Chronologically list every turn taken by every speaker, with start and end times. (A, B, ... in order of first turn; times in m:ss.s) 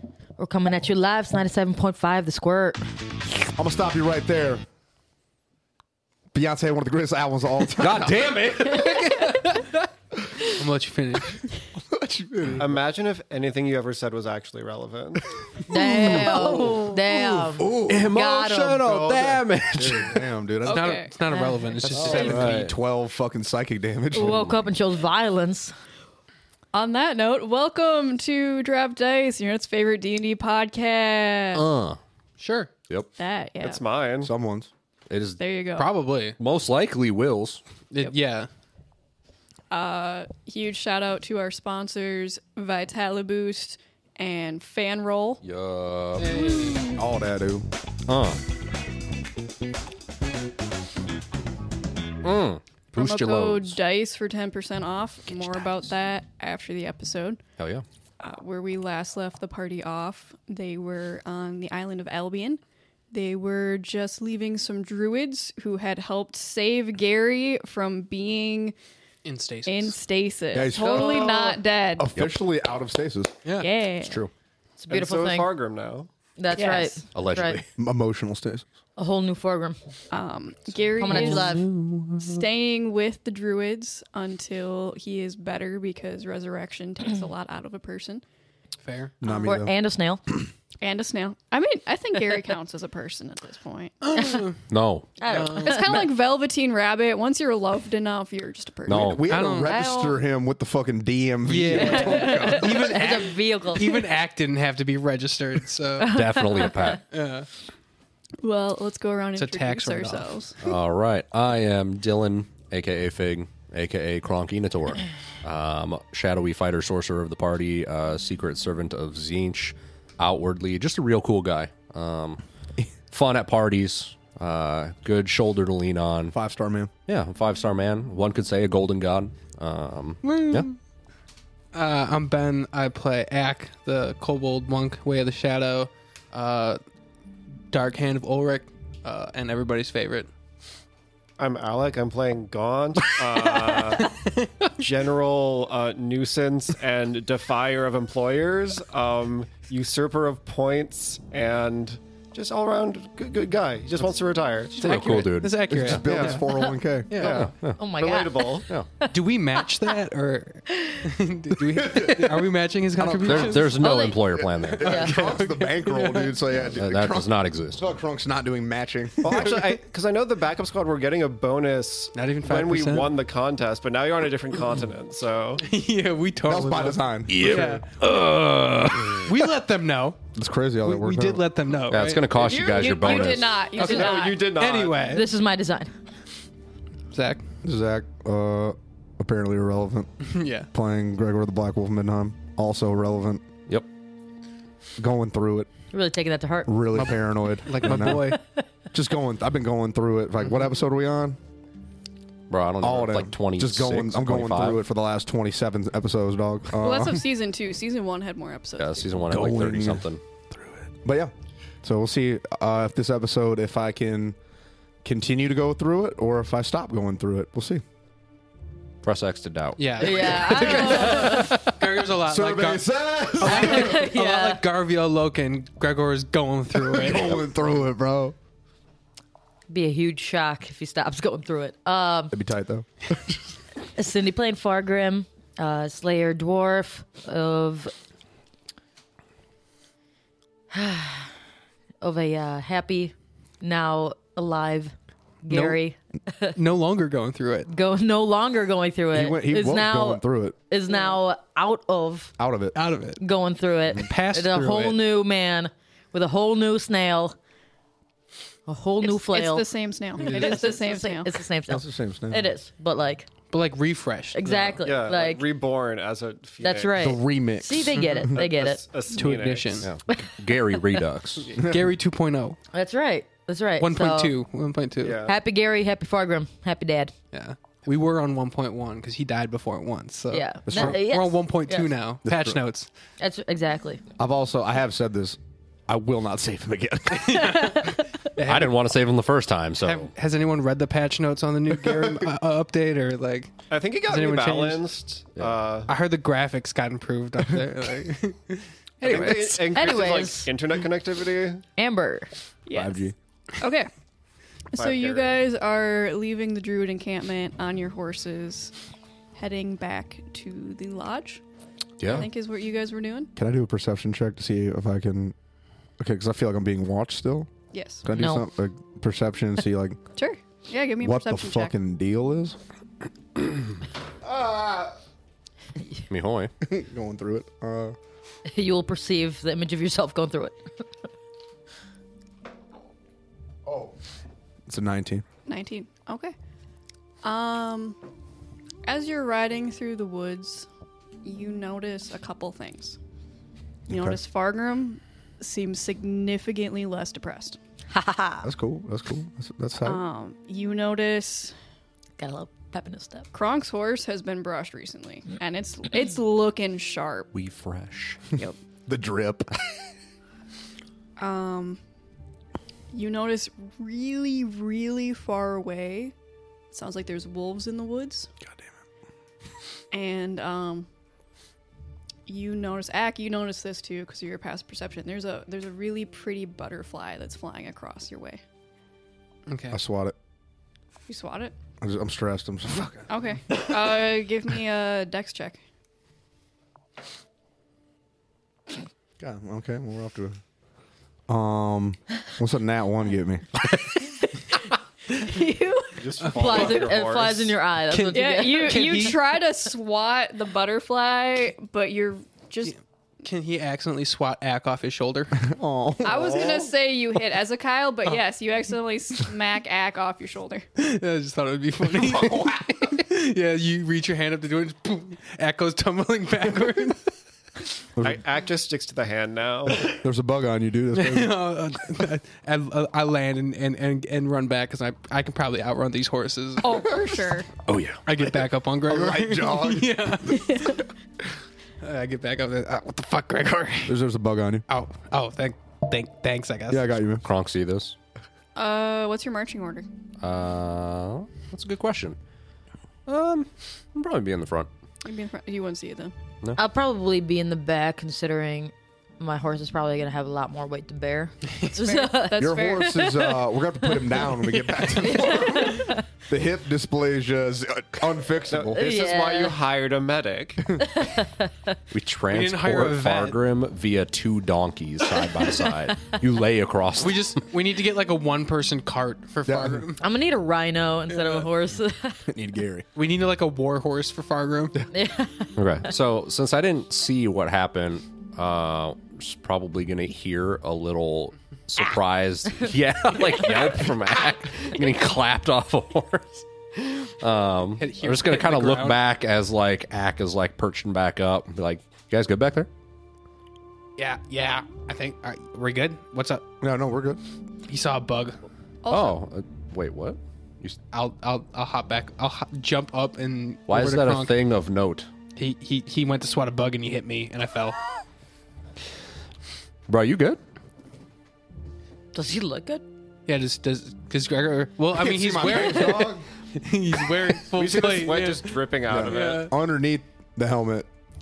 0:00.4-0:02.8 A
0:03.5-0:04.6 B
0:06.3-0:08.9 B
0:07.8-0:09.7 C
0:10.5-0:11.4 D
0:11.7-0:12.7 B
0:12.6-0:15.3 E
0:15.7-0:18.9 A
0:15.8-0:16.7 B
0:15.9-0:20.2 C
0:17.5-0:18.1 B
0:18.8-0:19.3 E
0:19.0-0:21.0 B
0:20.6-0:21.2 F
0:20.6-0:22.6 D
0:21.3-0:21.8 A
0:21.8-0:24.6 B
0:21.9-0:22.7 C
0:24.1-0:25.7 A
0:26.7-0:31.6 F
0:31.5-0:32.0 C
0:32.4-0:32.7 D
0:33.2-0:33.8 F
0:33.6-0:34.3 E
0:34.2-0:34.7 B
0:35.1-0:35.4 C
0:35.4-0:35.9 F
0:35.8-0:36.4 D
0:36.4-0:37.6 C
0:37.9-0:38.5 D
0:39.7-0:45.4 F
0:45.4-0:46.4 C
0:46.2-0:46.9 D
0:46.9-0:47.7 B
0:48.1-0:48.4 C
0:52.2-0:53.8 C
0:52.9-0:57.4 F
0:57.6-0:57.8 C
0:58.2-1:08.7 F
1:09.2-1:10.0 D
1:09.6-1:12.1 F
1:10.5-1:11.4 B
1:10.8-1:11.5 E
1:12.0-1:13.3 B
1:13.6-1:14.2 F
1:14.0-1:14.3 C
1:14.8-1:15.5 A
1:14.9-1:16.1 E
1:16.4-1:17.6 A
1:16.5-1:17.1 F
1:17.1-1:17.7 C
1:17.8-1:18.6 B
1:19.0-1:19.8 A
1:20.1-1:21.6 F
1:21.0-1:21.7 A
1:21.1-1:22.4 D
1:22.2-1:28.2 F
1:28.8-1:29.1 D
1:29.2-1:29.7 B
1:29.2-1:29.5 F
1:29.4-1:30.2 A
1:30.8-1:34.0 F
1:34.0-1:34.6 D
1:34.7-1:35.2 C
1:35.2-1:36.0 A
1:35.2-1:36.0 D
1:35.6-1:40.2 F
1:38.8-1:39.3 C
1:39.0-1:42.9 B
1:39.2-1:39.9 D
1:41.4-1:46.2 D
1:41.8-1:44.0 A
1:46.0-1:47.0 A
1:46.1-1:47.0 C
1:47.1-1:47.5 D
1:48.4-1:50.6 F
1:49.4-1:50.3 D
1:50.6-2:02.4 C
2:03.1-2:06.3 C
2:06.3-2:06.9 B
2:07.1-2:10.7 C
2:10.2-2:10.8 D
2:11.7-2:16.8 D
2:17.7-2:20.3 D
2:21.4-2:24.2 E
2:24.0-2:24.7 D
2:24.8-2:34.8 E
2:34.8-2:36.4 D
2:34.8-2:36.0 C
2:35.7-2:37.1 B
2:36.0-2:36.4 E
2:37.1-2:37.5 D
2:37.1-2:38.7 E
2:37.2-2:37.8 C
2:37.8-2:39.9 A
2:39.0-2:43.8 D
2:40.7-2:41.0 A
2:41.6-2:43.7 B
2:43.2-2:45.1 C
2:43.7-2:45.2 A
2:44.2-2:49.6 B
2:44.8-2:46.5 D
2:46.7-2:47.8 C
2:49.2-2:55.6 E
2:52.1-2:53.1 D
2:55.6-2:58.0 D
2:56.4-2:57.7 B
2:57.3-2:59.3 C
2:59.2-3:00.2 D
3:00.4-3:01.4 B
3:00.8-3:03.0 D
3:01.9-3:03.6 C
3:02.3-3:04.5 F
3:03.8-3:05.2 D
3:03.8-3:04.3 A
3:03.8-3:05.1 E
3:05.0-3:05.9 A
3:07.1-3:07.4 D
3:07.6-3:13.4 B
3:10.2-3:10.7 D
3:15.0-3:15.7 B
3:15.9-3:16.8 A
3:16.7-3:18.4 B
3:16.9-3:18.4 D
3:18.3-3:18.6 A
3:18.9-3:21.4 B
3:22.5-3:24.8 C
3:22.8-3:27.2 B
3:26.8-3:29.2 F
3:28.8-3:30.2 C
3:29.3-3:34.4 B
3:35.0-3:37.8 B
3:39.0-3:41.3 C
3:39.8-3:47.4 D
3:40.0-3:41.6 A
3:42.2-3:44.0 B
3:43.4-3:44.6 A
3:46.7-3:48.4 B
3:49.7-3:52.3 A
3:52.3-3:53.4 B
3:53.9-3:57.9 A
4:00.7-4:01.3 A
4:02.0-4:06.6 A
4:05.5-4:05.8 D
4:06.5-4:07.7 D
4:07.7-4:12.3 A
4:09.1-4:10.6 B
4:12.4-4:12.8 B
4:12.7-4:13.2 D
4:13.2-4:17.4 A
4:14.0-4:15.0 D
4:18.7-4:23.3 A
4:19.1-4:21.4 F
4:20.2-4:20.5 D
4:21.7-4:22.5 B
4:23.5-4:24.8 D
4:24.3-4:25.4 A
4:24.8-4:27.0 E
4:26.6-4:28.8 A
4:27.0-4:28.4 B
4:28.4-4:29.9 E
4:29.1-4:29.9 D
4:29.8-4:31.5 C
4:30.1-4:31.0 A
4:31.5-4:32.6 D
4:31.6-4:31.9 B
4:32.7-4:34.3 A
4:33.8-4:35.2 D
4:35.0-4:35.4 E
4:35.2-4:37.1 A
4:37.3-4:42.9 D
4:40.3-4:41.9 A
4:40.6-4:41.0 B
4:42.2-4:42.6 B
4:43.2-4:44.0 A
4:44.2-4:47.9 B
4:47.2-4:48.8 D
4:47.3-4:47.8 A
4:48.4-4:50.1 C
4:49.8-4:54.9 D
4:53.7-4:55.9 E
4:55.9-4:59.5 D
4:59.0-5:01.6 E
4:59.0-4:59.6 C
4:59.7-5:00.5 A
5:01.8-5:02.3 A
5:02.6-5:03.1 F
5:02.7-5:03.1 B
5:03.6-5:03.9 F
5:04.7-5:08.7 F
5:04.8-5:05.4 E
5:09.4-5:11.4 F
5:12.0-5:12.3 C
5:12.0-5:13.3 F
5:13.4-5:15.3 B
5:16.0-5:17.5 B
5:17.7-5:18.0 F
5:18.0-5:20.0 B
5:18.1-5:18.5 A
5:20.1-5:21.7 F
5:21.0-5:22.6 B
5:24.2-5:24.9 B
5:26.1-5:26.5 C
5:26.6-5:28.0 B
5:28.4-5:30.6 A
5:33.6-5:33.9 B
5:34.7-5:35.2 B
5:35.5-5:36.3 F
5:37.2-5:38.0 F
5:38.8-5:40.7 F
5:41.2-5:43.0 F
5:43.9-5:47.6 F
5:43.9-5:44.2 B
5:47.9-5:48.5 A
5:48.4-5:50.0 B
5:49.8-5:51.5 F
5:52.2-5:53.3 A
5:53.3-5:57.3 F
5:57.3-5:58.2 C
5:58.9-5:59.5 B
6:01.2-6:01.8 F
6:02.9-6:06.1 F
6:06.7-6:08.3 F
6:09.9-6:10.9 F
6:12.3-6:18.4 F
6:19.5-6:19.8 D
6:19.7-6:20.2 B
6:21.1-6:21.6 F
6:21.8-6:23.6 B
6:23.1-6:25.6 F
6:29.2-6:30.4 B
6:31.3-6:33.6 B
6:35.1-6:39.1 A
6:36.0-6:37.5 E
6:36.2-6:36.8 D
6:37.9-6:39.4 D
6:38.1-6:42.8 F
6:42.6-6:45.5 D
6:45.3-6:46.4 B
6:46.0-6:50.6 F
6:46.1-6:46.6 E
6:50.8-6:57.1 D
6:52.0-6:52.7 B
6:58.0-6:58.2 B
6:58.0-7:00.0 E
6:59.8-7:01.4 B
7:00.9-7:06.8 D
7:06.6-7:07.5 F
7:07.6-7:08.0 C
7:08.0-7:10.8 D
7:08.9-7:10.2 B
7:10.5-7:10.8 F
7:11.8-7:14.0 D
7:13.8-7:14.6 B
7:14.7-7:16.9 D
7:16.7-7:17.2 B
7:17.2-7:18.0 C
7:18.5-7:19.9 F
7:20.2-7:22.2 C
7:23.0-7:24.7 C
7:25.0-7:26.1 F
7:26.5-7:36.0 A
7:31.6-7:33.1 F
7:32.4-7:38.8 B
7:38.5-7:40.7 E
7:38.8-7:39.6 A
7:40.8-7:41.7 A
7:41.9-7:47.3 C
7:42.3-7:43.4 D
7:47.0-7:50.0 D
7:49.4-7:49.9 B
7:50.0-7:52.3 A
7:51.1-7:51.5 D
7:52.3-7:52.8 B
7:53.0-7:54.8 D
7:54.9-7:55.6 A
7:55.6-8:12.7 C
8:07.8-8:09.0 D
8:14.0-8:16.4 D
8:16.6-8:17.2 B
8:17.7-8:18.4 D
8:18.8-8:19.2 F
8:18.9-8:20.8 C
8:20.9-8:24.4 D
8:23.7-8:25.1 C
8:25.4-8:27.8 D
8:29.9-8:30.4 C
8:32.1-8:32.8 A
8:33.3-8:39.5 D
8:34.9-8:36.3 B
8:37.5-8:39.5 E
8:38.9-8:40.9 B